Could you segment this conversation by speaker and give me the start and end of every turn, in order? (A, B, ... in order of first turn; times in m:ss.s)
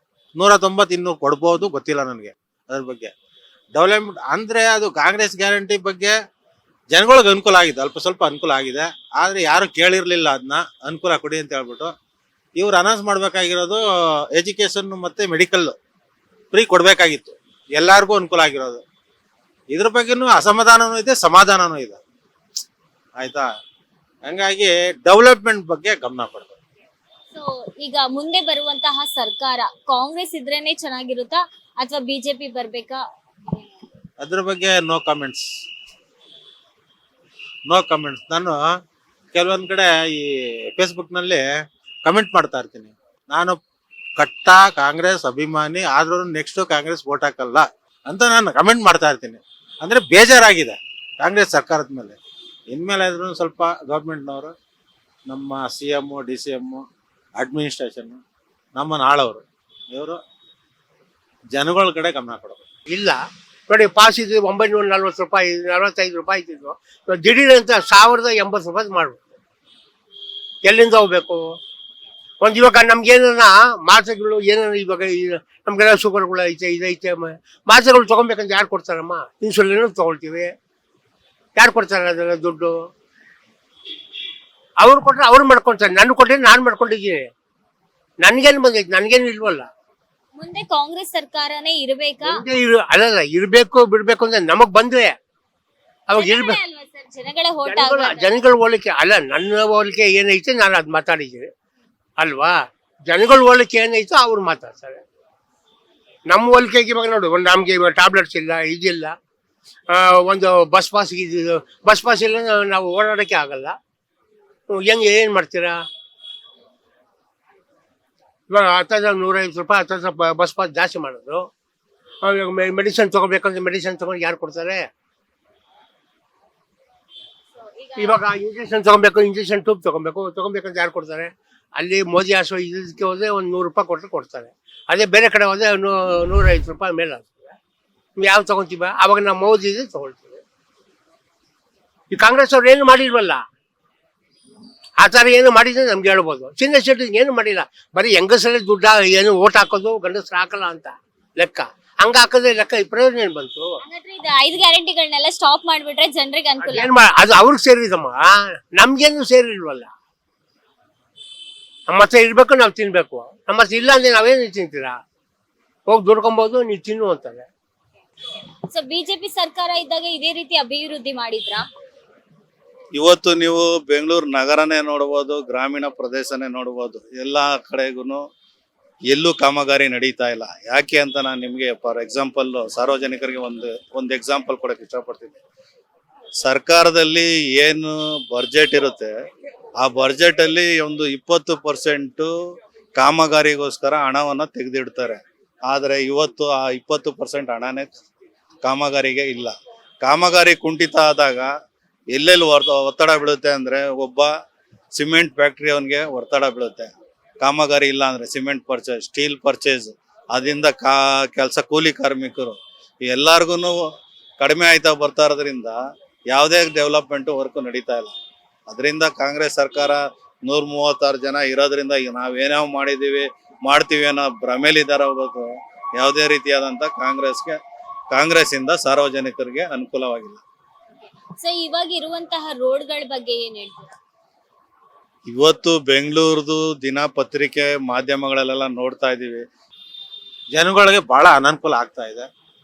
0:00.4-0:03.1 A
0:03.7-0:06.1 A
0:06.9-0:11.9 A
0:12.6-0:13.8 A
0:14.3-0:15.8 A
0:16.5-0:18.8 A
0:19.7-0:22.0 A
0:23.2-0:23.4 A
0:24.2-0:26.6 A
0:27.3-0:33.7 B
0:34.2-0:35.5 A
0:37.7-0:38.6 A
0:39.3-0:41.4 A
0:42.0-0:43.6 A
0:44.2-0:52.2 A
0:52.7-0:54.5 A
0:55.3-0:56.8 A
0:57.4-0:58.2 A
0:58.8-1:00.2 A
1:01.5-1:02.6 A
1:02.9-1:09.3 C
1:10.6-1:11.4 C
1:12.4-1:20.5 C
1:21.6-1:22.7 C
1:24.8-1:27.3 C
1:28.2-1:29.7 C
1:30.4-1:32.4 B
1:32.2-1:35.1 C
1:36.1-1:36.6 C
1:36.2-1:38.4 B
1:37.6-1:41.5 C
1:42.2-1:42.5 C
1:43.1-1:45.0 C
1:46.3-1:49.1 C
1:49.9-1:53.7 C
1:54.7-1:55.8 C
1:58.5-2:01.5 C
2:02.2-2:04.9 C
2:07.5-2:08.2 B
2:08.0-2:17.6 C
2:18.2-2:20.4 C
2:22.1-2:23.4 C
2:25.0-2:33.8 C
2:33.8-2:36.9 B
2:36.6-2:39.9 C
2:41.9-2:45.0 C
2:45.9-2:47.5 C
2:48.7-2:51.7 B
2:53.0-2:58.2 D
2:59.1-3:05.4 D
3:06.4-3:09.1 D
3:09.8-3:12.3 D
3:13.0-3:17.9 D
3:18.6-3:21.5 D
3:22.1-3:24.3 D
3:24.9-3:33.8 D
3:34.4-3:35.8 D
3:36.3-3:38.1 D
3:38.7-3:47.6 D
3:48.1-3:50.4 D
3:51.0-3:54.0 B
3:55.3-3:59.4 D
4:00.5-4:02.3 A